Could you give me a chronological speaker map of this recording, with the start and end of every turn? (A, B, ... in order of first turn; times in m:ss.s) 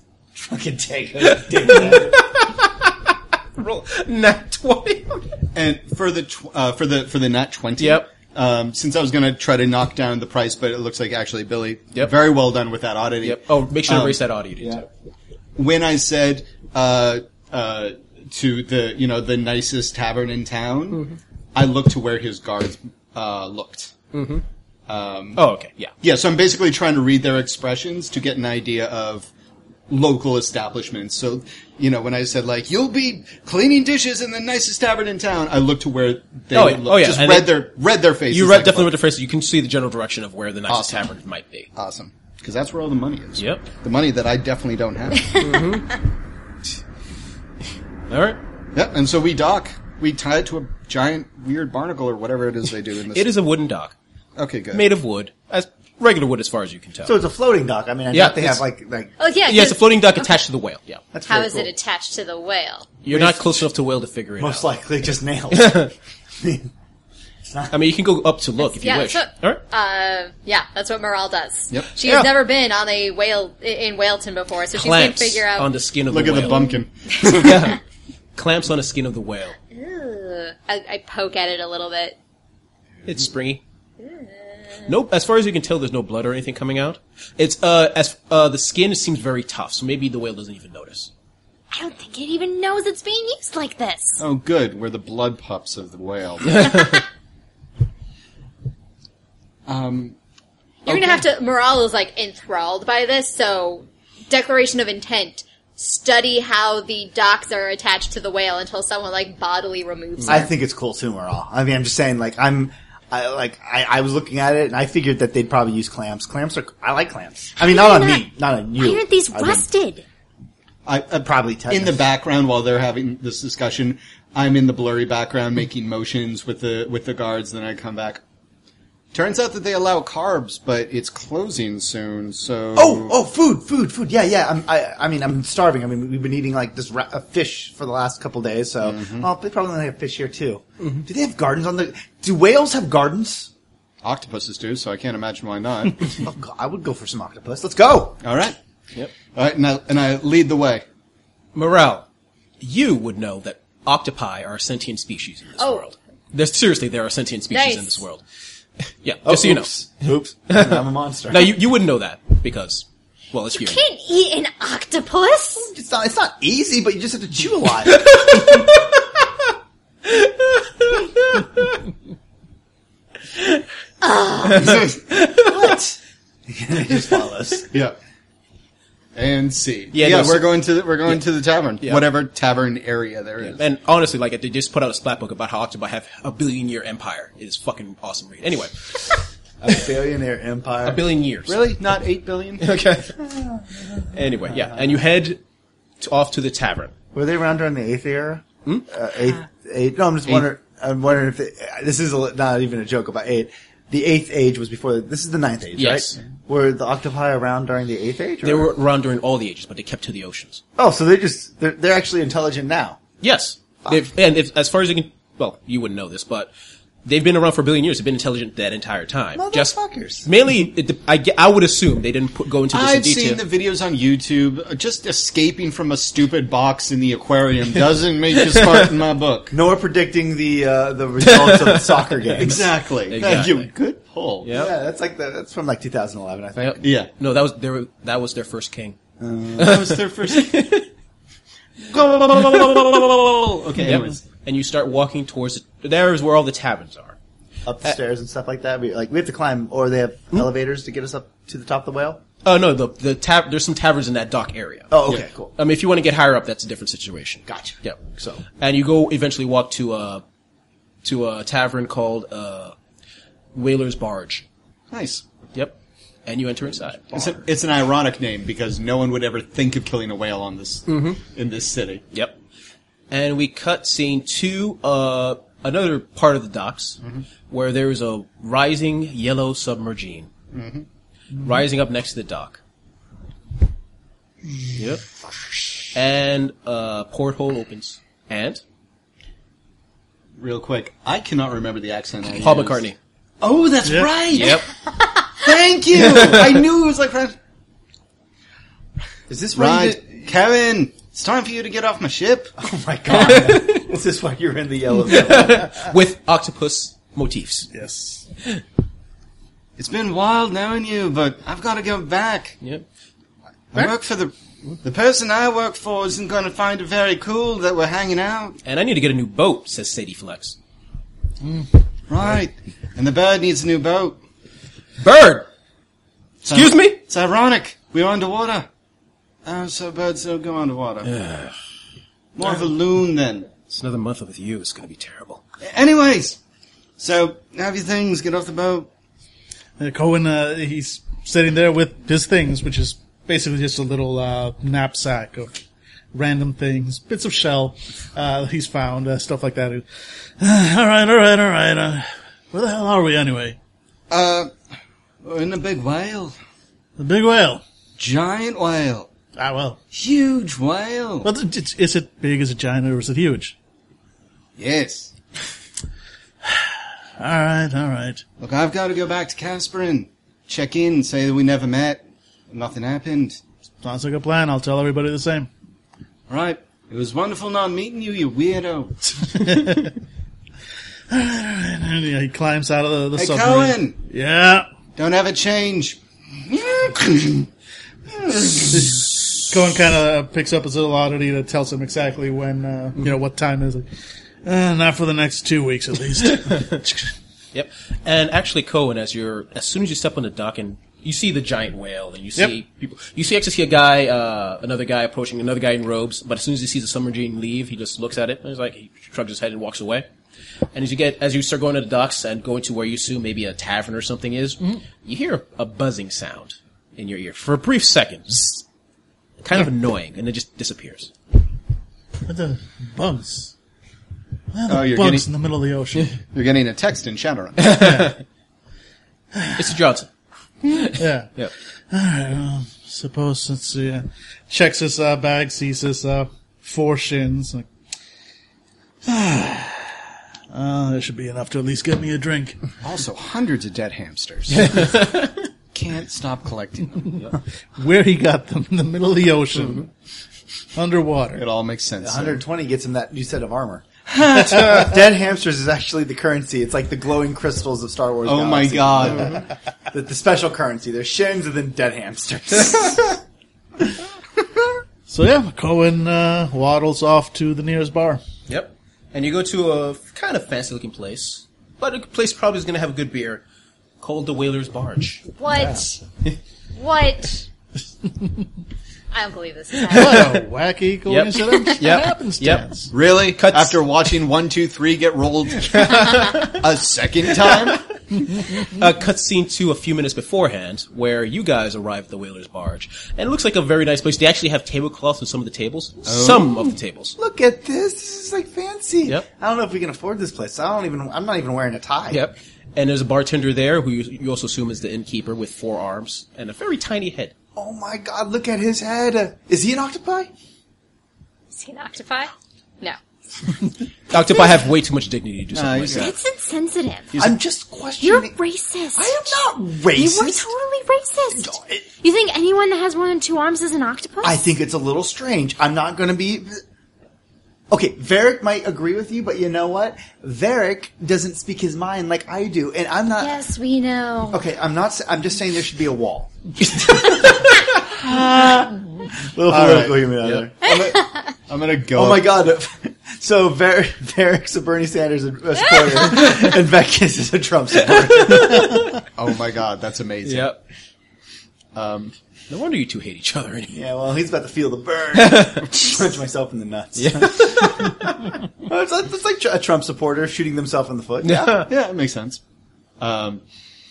0:00.4-0:02.2 A
0:01.2-0:02.9 B
0:03.6-0:05.3 B
0:05.6-0:14.2 C
0:07.8-0:08.1 B
0:13.2-0:14.9 B
0:15.6-0:24.0 C
0:20.9-0:21.2 B
0:24.1-0:24.4 B
0:24.9-0:25.5 C
0:25.4-0:25.9 B
0:26.0-0:29.3 C
0:29.9-0:39.0 C
0:36.5-0:37.7 B
0:38.3-0:41.7 B
0:40.7-0:41.1 C
0:41.8-0:45.5 C
0:43.4-0:43.7 B
0:45.4-0:46.0 B
0:48.1-0:48.4 B
0:48.8-0:53.3 C
0:53.1-0:54.0 B
0:54.4-0:54.9 C
0:54.7-0:57.2 B
0:57.0-0:59.1 A
0:58.1-0:58.6 B
0:59.2-1:00.4 D
0:59.4-1:01.0 B
1:01.1-1:01.7 A
1:01.3-1:02.9 D
1:03.0-1:04.7 B
1:03.1-1:03.6 A
1:04.4-1:05.9 A
1:05.5-1:05.9 B
1:06.4-1:06.7 A
1:07.4-1:07.8 A
1:07.7-1:09.6 B
1:08.6-1:15.7 D
1:12.0-1:12.3 B
1:14.7-1:16.7 B
1:16.1-1:17.8 C
1:16.4-1:17.6 D
1:17.3-1:17.8 B
1:18.4-1:19.6 B
1:19.7-1:22.2 D
1:23.0-1:23.6 B
1:24.0-1:24.8 D
1:24.9-1:31.1 B
1:31.7-1:34.2 D
1:34.2-1:36.8 C
1:36.6-1:36.9 B
1:39.7-1:40.2 C
1:40.8-1:50.5 D
1:40.9-1:41.3 C
1:50.3-1:59.6 A
1:57.6-2:00.0 D
2:00.9-2:08.2 C
2:01.2-2:02.0 A
2:09.1-2:13.2 C
2:12.8-2:23.5 A
2:18.8-2:19.3 C
2:24.0-2:26.1 C
2:26.2-2:28.2 A
2:28.2-2:28.6 C
2:29.3-2:30.8 C
2:31.6-2:32.0 B
2:32.6-2:38.2 B
2:35.6-2:35.8 D
2:37.5-2:38.0 D
2:39.0-2:39.7 B
2:39.2-2:41.5 A
2:40.5-2:43.8 B
2:43.6-2:45.7 D
2:45.6-2:48.4 A
2:47.9-2:48.9 B
2:50.1-2:51.6 B
2:54.0-2:54.7 D
2:54.5-2:55.6 B
2:54.6-2:54.9 C
2:55.3-2:57.7 A
2:57.7-2:58.0 C
2:59.2-3:03.6 C
2:59.9-3:01.2 B
3:03.4-3:09.2 B
3:09.6-3:11.0 A
3:10.8-3:11.6 B
3:11.5-3:12.7 C
3:12.6-3:13.2 B
3:13.3-3:14.0 A
3:14.1-3:15.4 B
3:16.0-3:16.9 B
3:17.1-3:28.7 A
3:25.8-3:26.2 B
3:28.4-3:30.6 B
3:30.8-3:33.0 A
3:33.2-3:36.5 B
3:37.0-3:43.4 B
3:39.4-3:40.3 A
3:42.7-3:49.5 C
3:48.6-3:48.8 B
3:49.5-3:52.7 A
3:51.2-3:52.4 B
3:52.4-3:54.5 C
3:53.1-3:53.7 B
3:54.4-3:54.7 B
3:54.5-3:56.8 A
3:56.6-3:59.0 B
3:56.8-3:57.1 C
3:59.2-3:59.8 A
3:59.6-4:00.7 C
3:59.6-4:00.9 B
4:01.8-4:04.2 C
4:03.8-4:07.2 B
4:07.7-4:12.2 A
4:12.4-4:20.2 B
4:14.9-4:15.5 A
4:17.5-4:18.4 A
4:21.0-4:22.8 B
4:23.6-4:24.4 B
4:24.9-4:25.2 C
4:25.5-4:27.4 B
4:27.1-4:32.0 C
4:30.9-4:31.2 B
4:33.1-4:40.3 B
4:40.5-4:40.9 C
4:41.4-4:42.6 B
4:44.8-4:45.0 B
4:45.9-4:48.6 B
4:50.4-4:52.9 C
4:52.3-4:53.0 B
4:53.4-4:54.6 C
4:53.8-4:54.1 E
4:54.3-4:54.7 B
4:55.4-4:57.4 C
4:56.0-4:56.6 B
4:59.3-5:00.1 A
4:59.5-5:02.5 C
5:02.6-5:05.9 A
5:03.1-5:03.8 B
5:05.1-5:07.7 B
5:07.7-5:08.2 E
5:09.8-5:12.6 C
5:13.7-5:18.6 C
5:18.6-5:20.6 B
5:22.1-5:24.2 C
5:25.0-5:25.5 B
5:26.4-5:28.7 C
5:26.5-5:27.0 B
5:29.4-5:31.1 C
5:31.0-5:31.6 B
5:32.4-5:33.5 C
5:33.7-5:35.4 B
5:35.6-5:36.4 C
5:37.0-5:38.9 C
5:39.8-5:45.5 E
5:46.1-5:49.8 E
5:50.4-5:53.6 E
5:54.1-5:54.5 C
5:55.2-5:56.4 C
5:57.0-5:57.6 E
5:58.0-5:59.1 C
5:59.4-5:59.8 E
5:59.9-6:01.3 C
6:01.2-6:03.6 E
6:04.6-6:05.2 C
6:06.5-6:08.2 E
6:08.4-6:13.4 C
6:13.8-6:15.5 E
6:16.3-6:19.2 C
6:19.4-6:19.9 E
6:21.1-6:24.7 E
6:23.2-6:24.0 C
6:25.0-6:27.5 C
6:28.1-6:29.0 C
6:28.7-6:33.9 E
6:34.4-6:37.1 E
6:37.5-6:50.1 B
6:50.7-6:58.6 B
6:59.4-7:01.1 B
7:02.3-7:03.5 E
7:04.5-7:06.1 E
7:04.7-7:05.3 C
7:06.3-7:07.7 C
7:07.6-7:08.2 B
7:07.7-7:08.2 E
7:09.3-7:09.6 E
7:09.6-7:10.1 B
7:10.6-7:11.5 B
7:10.9-7:11.3 E
7:11.9-7:17.7 E
7:19.0-7:20.0 E
7:20.5-7:22.6 E
7:22.8-7:24.9 C
7:24.5-7:25.3 B
7:25.7-7:27.2 C
7:27.8-7:29.9 E
7:30.8-7:31.4 E
7:31.3-7:32.4 C
7:32.0-7:33.9 A
7:34.1-7:34.9 C
7:34.4-7:43.2 A
7:38.2-7:39.4 C
7:45.1-7:48.2 E
7:48.5-7:53.4 B
7:54.0-7:55.3 B
7:55.4-7:56.0 D
7:56.8-7:57.5 D
7:59.1-8:00.4 D
7:59.9-8:00.4 B
7:59.9-8:02.9 E
8:01.1-8:02.7 B
8:02.9-8:07.8 C
8:03.3-8:03.8 B
8:05.8-8:06.5 B
8:08.6-8:17.2 B
8:16.0-8:16.6 C
8:17.2-8:22.2 A
8:22.1-8:27.3 B
8:27.6-8:30.3 A
8:31.5-8:33.0 D
8:34.1-8:36.1 B
8:35.5-8:36.2 C
8:35.9-8:37.2 D
8:37.2-8:38.4 A
8:38.0-8:39.4 D
8:39.0-8:40.5 A
8:39.9-8:44.4 D
8:41.3-8:41.9 A
8:44.2-8:46.6 A
8:47.7-8:53.4 A
8:53.2-8:54.4 D
8:54.3-9:00.6 A
8:56.9-8:57.3 B
8:59.5-9:02.4 C
9:00.6-9:01.2 D
9:02.0-9:08.8 A
9:08.3-9:08.8 B
9:09.2-9:10.5 C
9:10.2-9:10.6 B
9:11.7-9:12.1 C
9:12.5-9:13.8 B
9:13.7-9:18.1 A
9:15.2-9:16.0 B
9:17.0-9:18.2 B
9:18.6-9:21.7 A
9:21.2-9:21.7 B
9:21.7-9:22.4 C
9:23.0-9:23.4 C